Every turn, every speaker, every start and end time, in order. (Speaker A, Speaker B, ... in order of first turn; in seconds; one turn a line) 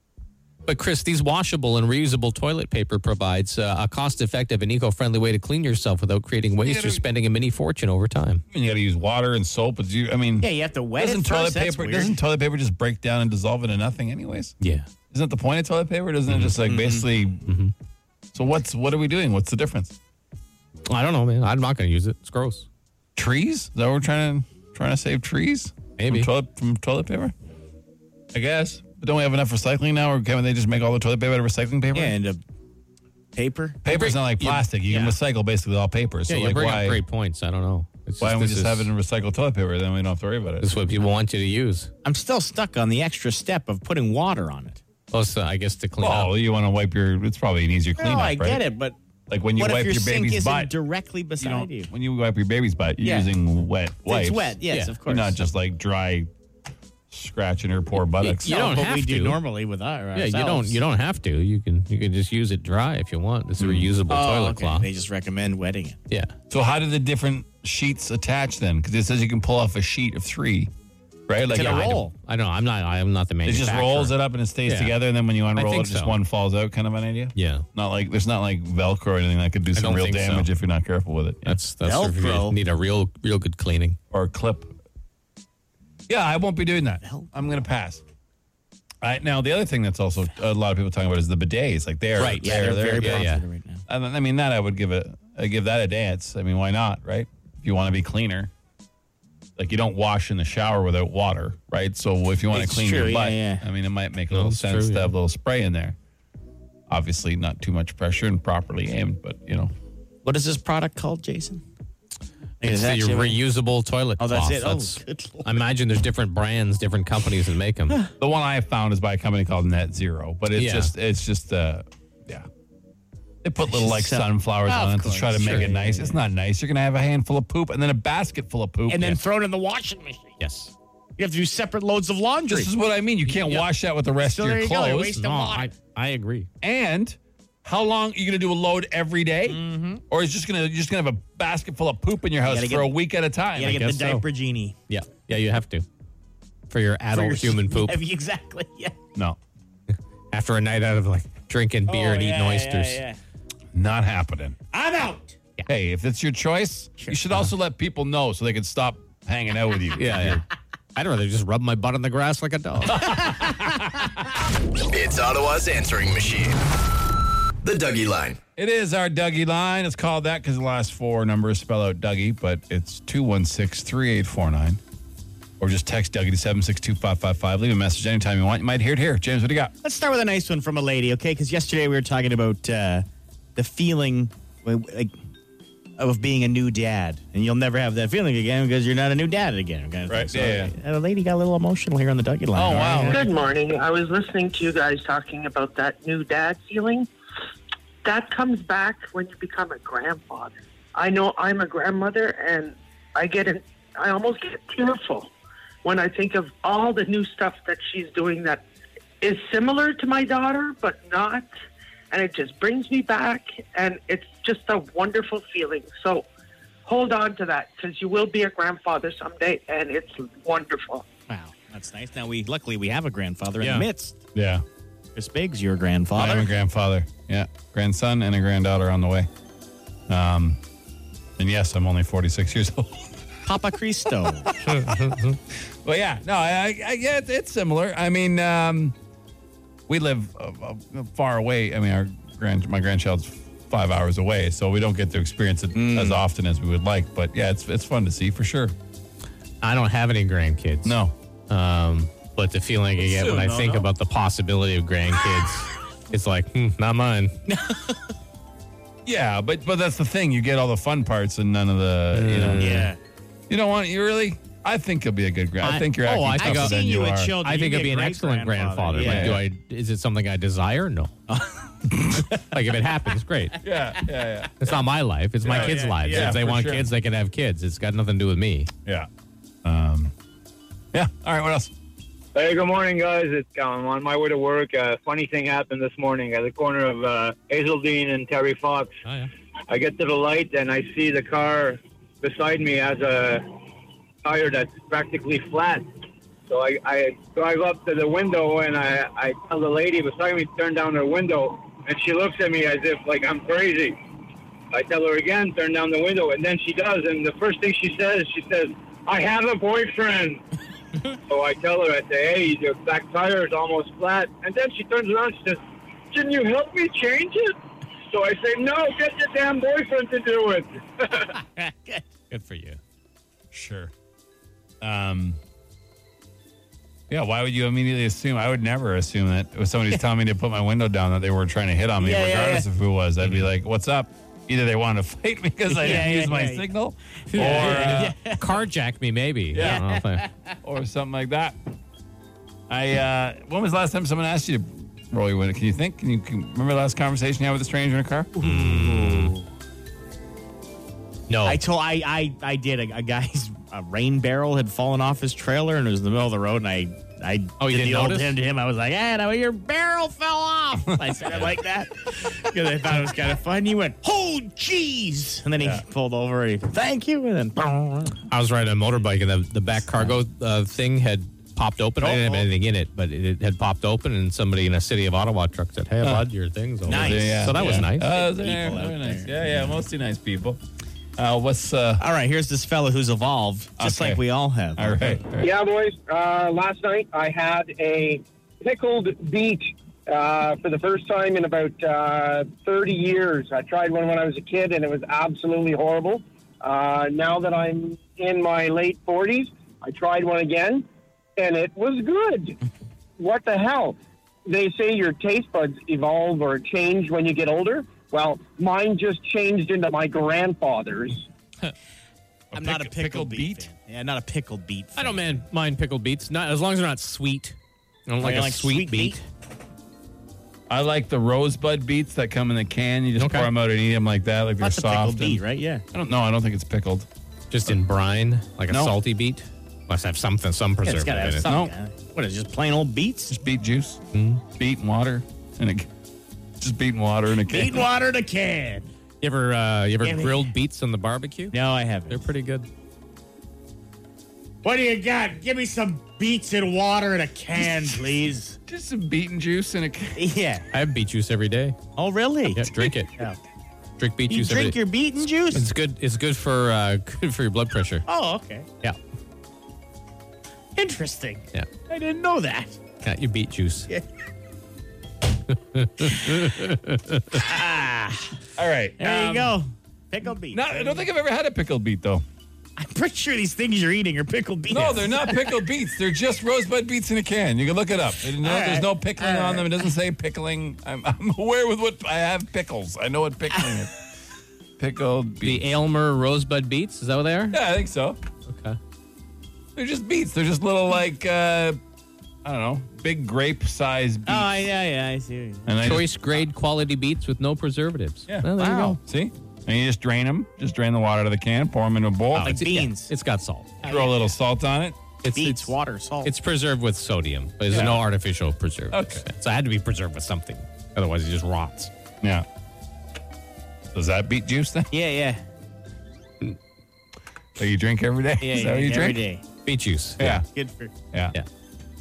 Speaker A: 0.7-8.4
Speaker B: 6.6-7.0
Speaker B: 8.5-14.6
Speaker C: 10.4-12.2
Speaker A: 14.6-14.9
Speaker B: 15.1-17.4
Speaker C: 16.6-17.1
Speaker A: 17.4-17.7
Speaker B: 18.3-19.9
Speaker A: 20.9-22.7
Speaker B: 23.1-27.3
Speaker A: 26.0-26.3
Speaker B: 28.3-32.2
Speaker C: 31.9-32.4
Speaker C: 33.3-33.8
Speaker B: 33.8-37.0
Speaker A: 33.9-34.6
Speaker C: 34.9-35.1
Speaker A: 36.3-38.9
Speaker B: 38.2-40.7
Speaker A: 40.6-41.9
Speaker C: 42.0-44.8
Speaker A: 45.1-46.3
Speaker B: 46.0-48.6
Speaker C: 48.0-49.0
Speaker B: 49.3-50.7
Speaker C: 49.5-51.9
Speaker B: 51.4-56.3
Speaker C: 53.0-53.3
Speaker C: 54.0-55.4
Speaker A: 54.7-54.9
Speaker B: 57.1-58.5
Speaker A: 58.2-59.4
Speaker C: 58.4-60.8
Speaker A: 60.1-64.9
Speaker B: 63.6-63.9
Speaker C: 64.1-66.0
Speaker B: 66.5-70.7
Speaker B: 71.3-72.0
Speaker C: 71.5-72.0
Speaker A: 71.5-74.9
Speaker B: 73.5-81.6
Speaker A: 75.5-76.2
Speaker A: 77.3-77.6
Speaker A: 79.7-80.5
Speaker A: 81.4-84.0
Speaker C: 81.8-82.6
Speaker B: 84.1-84.7
Speaker B: 86.1-88.0
Speaker C: 87.0-87.3
Speaker B: 89.0-93.3
Speaker A: 92.2-93.4
Speaker C: 92.2-93.8
Speaker B: 93.9-98.5
Speaker B: 99.6-106.0
Speaker C: 102.5-103.6
Speaker A: 104.3-105.1
Speaker B: 106.9-109.7
Speaker C: 110.2-111.6
Speaker C: 112.6-113.4
Speaker A: 112.6-118.0
Speaker C: 114.2-115.6
Speaker B: 118.2-122.5
Speaker A: 120.5-120.9
Speaker B: 123.4-129.2
Speaker C: 123.6-126.2
Speaker A: 125.4-125.7
Speaker C: 128.9-130.3
Speaker A: 130.4-130.7
Speaker C: 131.2-132.7
Speaker B: 132.5-135.2
Speaker A: 133.3-133.7
Speaker C: 134.2-135.7
Speaker A: 135.1-136.5
Speaker B: 136.6-143.8
Speaker C: 139.4-140.0
Speaker C: 142.4-142.9
Speaker C: 143.5-144.8
Speaker A: 143.7-144.2
Speaker A: 144.9-145.8
Speaker A: 146.7-148.0
Speaker C: 147.1-149.0
Speaker A: 150.3-153.0
Speaker C: 151.9-153.2
Speaker B: 153.7-154.6
Speaker C: 154.7-155.3
Speaker B: 155.7-160.4
Speaker A: 160.0-160.4
Speaker A: 160.9-163.2
Speaker B: 162.9-163.8
Speaker D: 164.9-166.6
Speaker D: 167.6-168.4
Speaker B: 168.6-174.8
Speaker B: 175.6-179.7
Speaker C: 179.8-185.1
Speaker C: 186.0-193.2
Speaker B: 190.1-190.7
Speaker B: 192.5-193.2
Speaker E: 193.1-197.1
Speaker E: 198.0-205.3
Speaker E: 205.8-208.6
Speaker E: 209.2-211.5
Speaker E: 212.1-216.3
Speaker E: 216.8-221.1
Speaker C: 221.3-224.2
Speaker A: 223.6-223.9
Speaker B: 224.3-224.6
Speaker C: 225.1-226.5
Speaker B: 226.1-229.3
Speaker B: 230.1-230.6
Speaker B: 231.4-233.0
Speaker C: 233.4-234.5
Speaker A: 234.6-235.4
Speaker B: 235.8-238.9
Speaker B: 239.9-248.7
Speaker C: 245.7-246.2
Speaker A: 249.6-251.0
Speaker B: 250.8-251.1
Speaker A: 251.5-257.4
Speaker B: 253.1-253.6
Speaker C: 253.2-253.9
Speaker C: 257.5-258.0
Speaker B: 259.1-262.8
Speaker A: 262.1-262.9
Speaker C: 262.5-263.0
Speaker B: 263.5-267.4
Speaker A: 265.6-266.8
Speaker C: 266.3-269.4
Speaker A: 267.4-271.1
Speaker B: 268.9-269.4
Speaker C: 271.3-271.9
Speaker B: 272.0-272.3
Speaker A: 272.4-273.6
Speaker B: 273.6-274.8
Speaker A: 274.6-278.7
Speaker B: 275.4-276.9
Speaker C: 275.4-276.4
Speaker B: 279.6-280.1
Speaker B: 280.9-281.7
Speaker F: 282.3-288.9
Speaker A: 289.0-289.3
Speaker F: 289.7-293.5
Speaker F: 294.2-295.9
Speaker F: 296.5-304.0
Speaker F: 304.7-310.4
Speaker F: 311.3-317.5
Speaker F: 318.1-321.3
Speaker C: 321.3-322.1
Speaker A: 322.3-322.8
Speaker B: 323.5-323.9
Speaker B: 324.8-325.4
Speaker B: 327.1-338.2
Speaker C: 332.0-332.7
Speaker C: 335.7-336.7
Speaker A: 335.8-336.1
Speaker A: 337.3-340.3
Speaker C: 337.4-338.5
Speaker B: 339.5-339.8
Speaker C: 339.6-340.5
Speaker B: 340.6-341.6
Speaker B: 342.7-348.3
Speaker C: 348.4-349.4
Speaker A: 348.4-349.4
Speaker A: 351.3-351.6
Speaker C: 351.4-368.2
Speaker A: 357.6-358.3
Speaker A: 368.3-378.1
Speaker C: 372.0-372.5
Speaker B: 376.0-376.2
Speaker C: 376.8-379.7
Speaker B: 376.8-380.6
Speaker B: 381.2-382.0
Speaker C: 382.0-385.2
Speaker B: 383.8-384.2
Speaker B: 384.8-385.5
Speaker G: 385.4-402.6
Speaker G: 403.2-411.3
Speaker B: 412.5-413.7
Speaker C: 412.5-415.2
Speaker A: 414.9-417.6
Speaker A: 418.1-419.2
Speaker C: 418.2-419.2
Speaker B: 420.7-425.4
Speaker A: 423.2-423.5
Speaker C: 424.6-425.8
Speaker B: 425.9-427.1
Speaker A: 427.5-431.5
Speaker C: 430.8-433.3
Speaker B: 431.4-431.7
Speaker B: 433.3-434.0
Speaker A: 434.1-434.4
Speaker B: 434.5-435.9
Speaker B: 436.6-437.9
Speaker C: 437.4-438.9
Speaker A: 439.2-441.6
Speaker C: 440.0-440.5
Speaker C: 441.5-442.3
Speaker A: 442.1-442.7
Speaker C: 444.6-448.6
Speaker B: 448.7-450.2
Speaker C: 450.1-450.7
Speaker A: 450.7-451.8
Speaker C: 451.9-453.4
Speaker A: 452.5-453.1
Speaker A: 454.0-454.8
Speaker C: 454.3-455.6
Speaker A: 455.4-458.0
Speaker C: 458.1-458.7
Speaker C: 460.8-462.8
Speaker A: 463.0-463.9
Speaker A: 465.5-467.4
Speaker C: 467.3-468.4
Speaker B: 468.6-469.6
Speaker C: 469.0-471.1
Speaker B: 470.5-472.2
Speaker C: 472.8-475.6
Speaker B: 474.7-484.0
Speaker C: 478.4-479.9
Speaker B: 484.8-485.6
Speaker A: 485.4-487.6
Speaker B: 487.5-488.2
Speaker A: 488.5-488.8
Speaker B: 489.8-491.8
Speaker B: 492.4-494.6
Speaker C: 494.2-495.7
Speaker B: 495.6-496.4
Speaker A: 495.8-499.0
Speaker C: 498.6-499.0
Speaker B: 499.0-502.6
Speaker C: 502.4-503.1
Speaker A: 502.4-503.8
Speaker C: 503.8-504.2
Speaker B: 503.8-505.0
Speaker A: 505.2-511.9
Speaker C: 505.3-506.3
Speaker B: 507.7-508.0
Speaker B: 508.9-509.2
Speaker B: 513.9-514.9
Speaker C: 514.9-515.4
Speaker B: 517.6-519.2
Speaker C: 518.4-519.4
Speaker A: 519.6-520.4
Speaker B: 520.2-520.5
Speaker C: 520.5-520.9